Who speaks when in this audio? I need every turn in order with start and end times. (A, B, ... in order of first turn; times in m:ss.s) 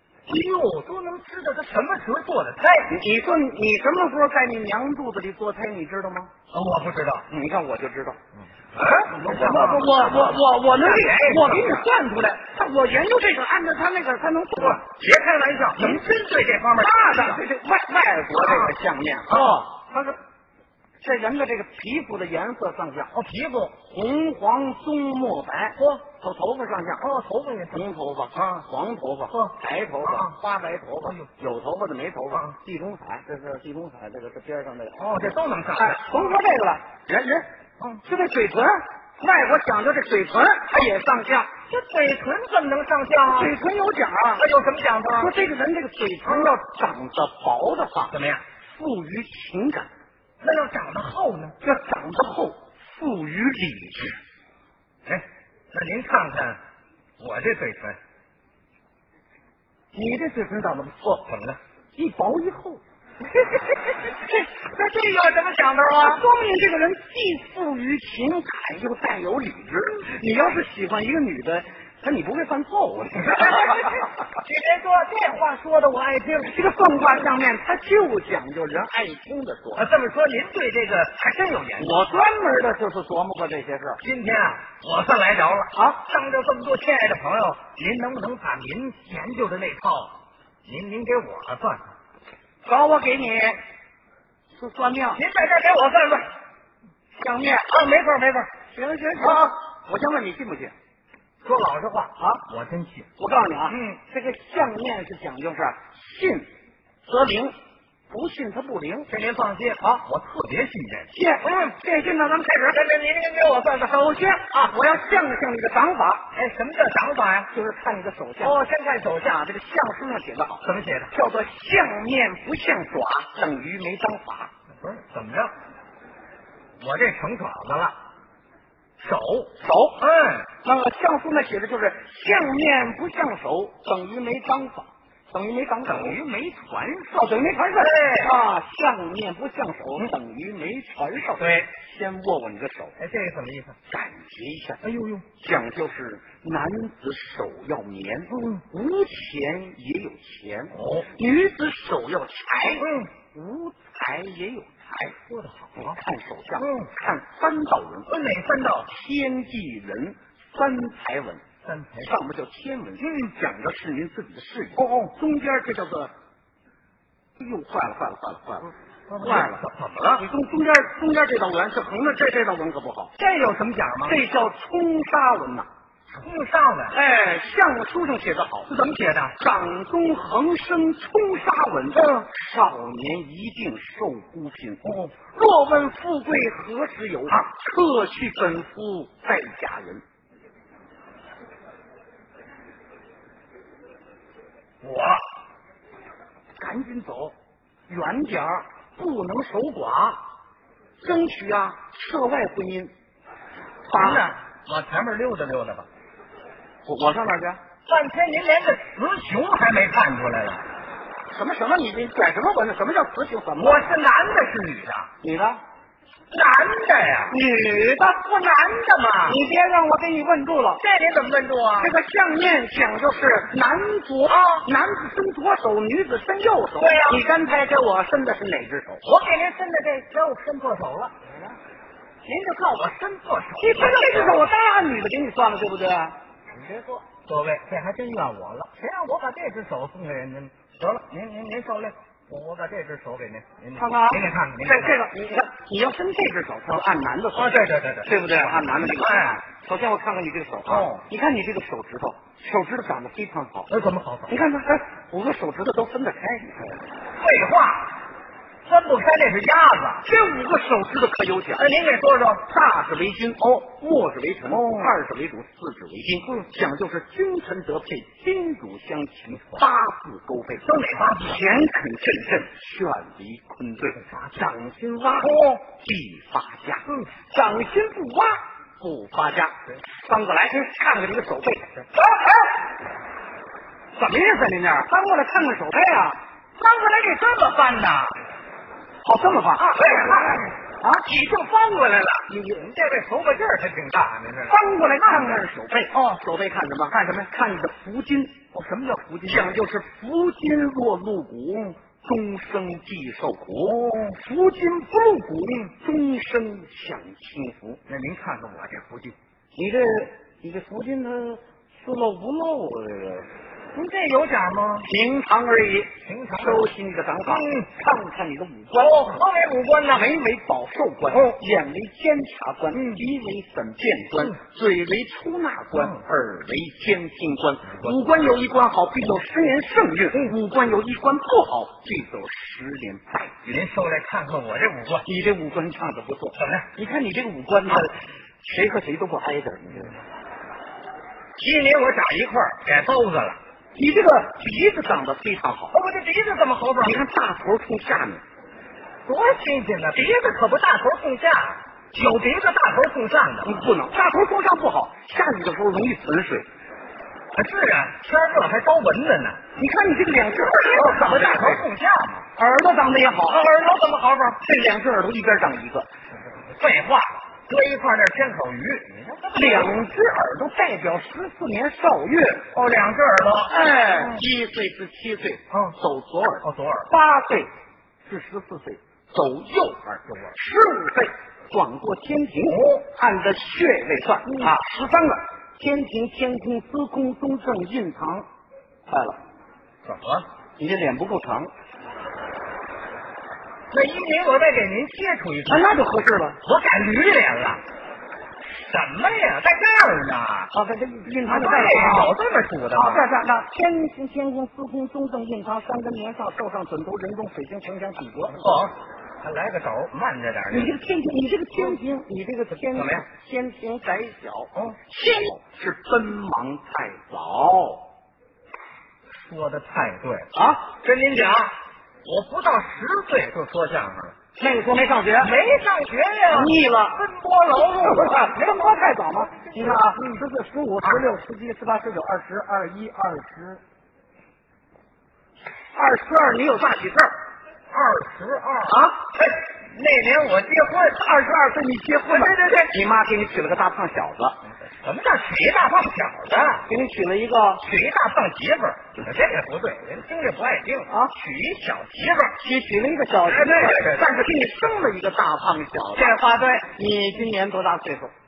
0:00.3-0:02.9 A
0:02.9-0:06.3 B
0:06.5-0:07.2 A
0:07.3-0:08.2 B
0:08.7-0:11.8 A
0:09.1-0:14.8 B
0:14.6-0:17.4 A
0:15.8-0:16.0 B
0:16.8-0:20.2 B
0:18.3-0:18.7 A
0:19.3-0:19.6 A
0:21.0-0:23.1 B
0:23.1-0:23.8 A
0:23.9-0:27.1 B
0:27.0-0:27.8 A
0:27.7-0:37.5 B
0:30.0-0:30.3 A
0:35.0-0:36.3 A
0:37.8-0:38.0 A
0:38.0-0:41.5 B
0:41.7-0:43.5 A
0:43.2-0:44.4 B
0:44.4-0:45.3 A
0:45.2-0:49.9 B
0:46.2-0:46.5 A
0:48.1-0:48.4 A
0:50.4-0:51.6 A
0:51.6-0:54.2 B
0:55.0-0:56.6 A
0:57.2-0:58.0 A
0:59.9-1:01.2 B
1:01.2-1:01.6 A
1:02.0-1:02.8 B
1:03.4-1:06.2 A
1:05.9-1:13.8 B
1:13.2-1:17.2 A
1:16.4-1:19.9 B
1:19.8-1:22.1 A
1:21.8-1:24.0 B
1:24.0-1:30.1 A
1:30.6-1:31.9 A
1:32.6-1:33.6 B
1:34.5-1:35.2 B
1:35.1-1:36.3 A
1:37.2-1:37.6 B
1:37.3-1:38.5 A
1:38.7-1:40.7 B
1:39.2-1:39.5 A
1:41.4-1:43.1 A
1:43.2-1:46.5 B
1:43.7-1:44.0 A
1:47.0-1:47.6 B
1:48.1-1:49.1 B
1:49.1-1:51.1 A
1:51.1-1:52.8 B
1:52.7-1:54.5 A
1:54.2-1:56.3 B
1:56.3-1:57.5 A
1:57.5-1:58.6 B
1:58.4-1:59.4 A
1:59.4-2:04.5 B
2:00.6-2:01.1 A
2:04.8-2:05.5 A
2:06.8-2:08.0 A
2:09.0-2:10.5 A
2:09.6-2:10.0 B
2:10.6-2:23.0 B
2:15.9-2:16.2 A
2:17.8-2:18.3 A
2:21.4-2:21.7 A
2:23.0-2:23.8 A
2:23.9-2:24.8 B
2:24.8-2:25.2 A
2:25.4-2:35.2 B
2:30.7-2:31.1 A
2:32.8-2:33.1 A
2:35.3-2:36.0 A
2:35.8-2:38.1 B
2:36.6-2:36.9 A
2:38.1-2:38.9 A
2:38.8-2:41.4 B
2:41.6-2:42.1 A
2:42.0-2:46.1 B
2:47.4-2:49.6 B
2:49.1-2:50.2 A
2:50.2-2:53.1 B
2:53.2-2:54.2 A
2:54.0-2:55.7 B
2:56.1-2:57.0 A
2:56.9-2:58.7 B
2:58.7-2:59.3 A
2:59.3-3:10.0 B
3:01.9-3:02.2 A
3:04.8-3:05.1 A
3:14.8-3:15.2 A
3:16.6-3:17.3 B
3:17.9-3:20.2 B
3:21.0-3:22.9 B
3:23.9-3:24.3 B
3:23.9-3:25.9 A
3:26.8-3:27.6 B
3:27.9-3:30.6 A
3:31.3-3:33.8 B
3:33.6-3:35.1 A
3:35.2-3:35.6 B
3:36.3-3:37.4 A
3:37.3-3:38.3 B
3:38.2-3:39.4 A
3:39.2-3:40.8 B
3:40.8-3:41.9 A
3:41.8-3:49.0 B
3:44.3-3:44.6 A
3:46.8-3:47.2 A
3:49.0-3:51.2 A
3:52.2-3:52.7 B
3:52.6-3:54.5 A
3:53.6-3:56.2 B
3:56.5-4:05.0 A
4:03.8-4:13.7 B
4:07.3-4:09.4 A
4:10.7-4:11.0 A
4:13.7-4:14.4 A
4:14.3-4:16.8 B
4:17.2-4:17.9 A
4:18.6-4:20.0 A
4:20.0-4:21.7 B
4:21.6-4:22.4 A
4:22.5-4:41.9 B
4:30.6-4:31.4 A
4:34.0-4:34.4 A
4:35.2-4:35.6 A
4:36.8-4:37.1 A
4:41.9-4:42.6 A
4:44.0-4:46.2 B
4:46.6-4:48.2 A
4:49.0-4:51.0 B
4:49.7-4:55.4 A
4:54.5-4:58.6 B
4:58.5-4:59.6 A
4:59.2-5:07.8 B
5:03.6-5:04.2 A
5:07.9-5:09.2 A
5:09.5-5:13.3 B
5:13.7-5:14.9 A
5:14.9-5:19.2 B
5:16.0-5:16.7 A
5:17.2-5:17.7 A
5:18.7-5:20.0 A
5:19.8-5:33.5 B
5:21.1-5:21.3 A
5:22.7-5:23.0 A
5:33.4-5:35.1 A
5:35.0-5:40.0 B
5:36.4-5:36.7 A
5:41.4-5:43.4 A
5:43.7-5:45.8 B
5:45.7-5:47.0 A
5:46.8-5:48.2 B
5:49.0-5:53.6 A
5:53.4-5:56.5 B
5:57.3-5:59.4 A
5:59.6-6:01.6 B
6:00.4-6:02.3 A
6:02.4-6:03.4 B
6:03.2-6:04.4 A
6:04.4-6:05.9 B
6:06.5-6:09.8 A
6:09.3-6:12.5 B
6:12.5-6:14.2 A
6:13.5-6:17.5 B
6:15.5-6:15.8 A
6:16.4-6:16.9 A
6:18.0-6:28.3 B
6:22.4-6:22.8 A
6:24.3-6:24.5 A
6:28.9-6:29.2 B
6:29.8-6:30.2 A
6:30.6-6:31.5 B
6:33.7-6:35.7 A
6:35.5-6:36.4 B
6:36.4-6:37.6 A
6:38.5-6:40.5 A
6:40.5-6:42.1 B
6:41.2-6:43.0 A
6:42.7-6:48.6 B
6:48.4-6:50.7 A
6:50.5-6:57.9 B
6:52.7-6:53.0 A
6:59.2-7:04.2 A
7:00.3-7:00.6 B
7:04.4-7:05.3 B
7:05.2-7:10.2 A
7:06.3-7:07.0 B
7:07.6-7:13.6 B
7:15.7-7:17.1 B
7:17.7-7:20.8 A
7:18.7-7:19.0 B
7:20.8-7:24.4 B
7:22.1-7:22.7 A
7:24.8-7:26.7 A
7:26.6-7:27.6 B
7:27.6-7:32.4 A
7:30.9-7:31.1 B
7:32.4-7:38.1 B
7:33.2-7:34.2 A
7:35.9-7:36.7 A